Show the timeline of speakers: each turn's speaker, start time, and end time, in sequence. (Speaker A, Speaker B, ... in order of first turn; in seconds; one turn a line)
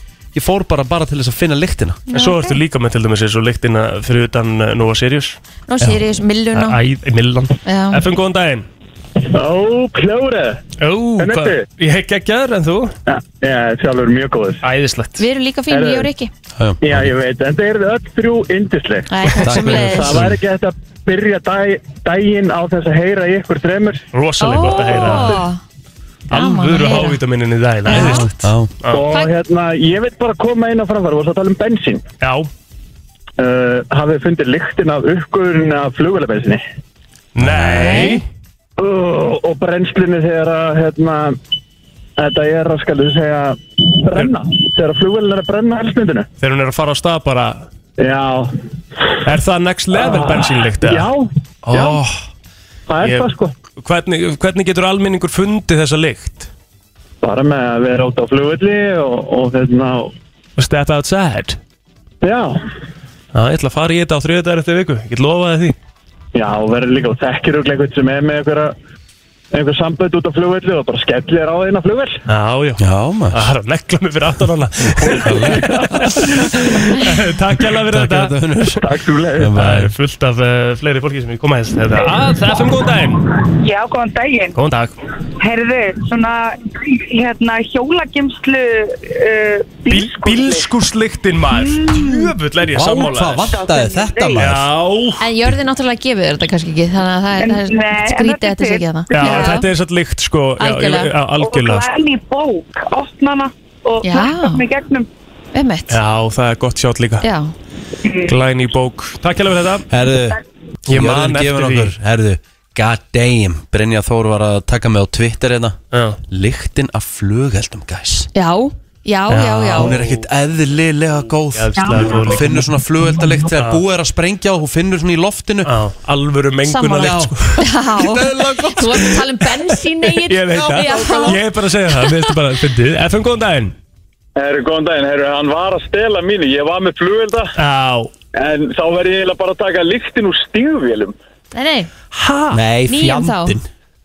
Speaker A: 0.3-2.0
Speaker B: 2.1-2.6
Speaker C: 2.1-5.4
Speaker B: 5.7-6.8
Speaker C: 6.5-8.7
Speaker B: 7.6-8.0
Speaker D: 9.3-10.6
Speaker C: 10.8-12.9
Speaker D: 11.2-11.6
Speaker D: 13.1-14.6
Speaker C: 14.6-15.2
Speaker B: 15.2-16.3
Speaker D: 15.7-16.1
Speaker A: 16.6-17.1
Speaker D: 16.8-24.0
Speaker B: 19.1-20.2
Speaker A: 19.4-20.4
Speaker C: 24.1-25.5
Speaker B: 24.4-25.6
Speaker B: 26.3-27.2
Speaker C: 26.3-29.0
Speaker B: 27.9-28.3
Speaker A: 27.9-28.7
Speaker D: 28.9-32.0
Speaker C: 32.2-32.5
Speaker D: 33.4-36.6
Speaker C: 37.3-38.2
Speaker A: 37.4-38.2
Speaker B: 37.8-38.2
Speaker D: 38.8-41.4
Speaker D: 42.2-46.3
Speaker C: 46.4-47.7
Speaker D: 48.0-48.5
Speaker C: 49.2-51.1
Speaker D: 49.9-52.0
Speaker C: 51.6-52.1
Speaker D: 52.9-53.5
Speaker C: 53.0-56.5
Speaker D: 57.2-60.1
Speaker C: 60.6-61.6
Speaker D: 62.2-62.6
Speaker C: 63.3-65.8
Speaker D: 66.3-68.7
Speaker D: 69.5-72.2
Speaker C: 72.3-78.3
Speaker A: 72.8-73.5
Speaker A: 75.0-76.8
Speaker A: 77.6-78.8
Speaker D: 78.8-79.5
Speaker A: 79.4-79.9
Speaker C: 79.5-83.2
Speaker E: 83.6-84.5
Speaker C: 84.5-84.9
Speaker E: 85.4-90.7
Speaker C: 89.9-93.5
Speaker E: 91.5-92.1
Speaker A: 92.7-94.7
Speaker E: 93.4-94.5
Speaker C: 94.4-95.2
Speaker B: 95.2-99.7
Speaker E: 97.4-99.6
Speaker C: 99.1-101.8
Speaker B: 100.6-101.1
Speaker E: 101.4-105.1
Speaker B: 104.0-104.6
Speaker B: 105.5-106.0
Speaker C: 105.9-107.2
Speaker B: 107.2-107.5
Speaker E: 108.0-108.3
Speaker C: 108.2-109.9
Speaker A: 109.9-118.3
Speaker C: 110.9-111.9
Speaker C: 115.9-116.2
Speaker B: 118.3-120.0
Speaker C: 119.3-120.2
Speaker A: 119.7-125.7
Speaker C: 121.5-122.7
Speaker E: 121.8-122.2
Speaker C: 123.5-123.8
Speaker C: 125.7-127.7
Speaker B: 126.7-131.4
Speaker A: 127.0-127.3
Speaker A: 128.0-128.9
Speaker C: 128.4-133.7
Speaker D: 134.3-137.5
Speaker C: 137.6-138.1
Speaker D: 138.3-141.1
Speaker B: 141.5-141.9
Speaker C: 142.1-142.6
Speaker A: 142.5-143.7
Speaker B: 142.9-143.6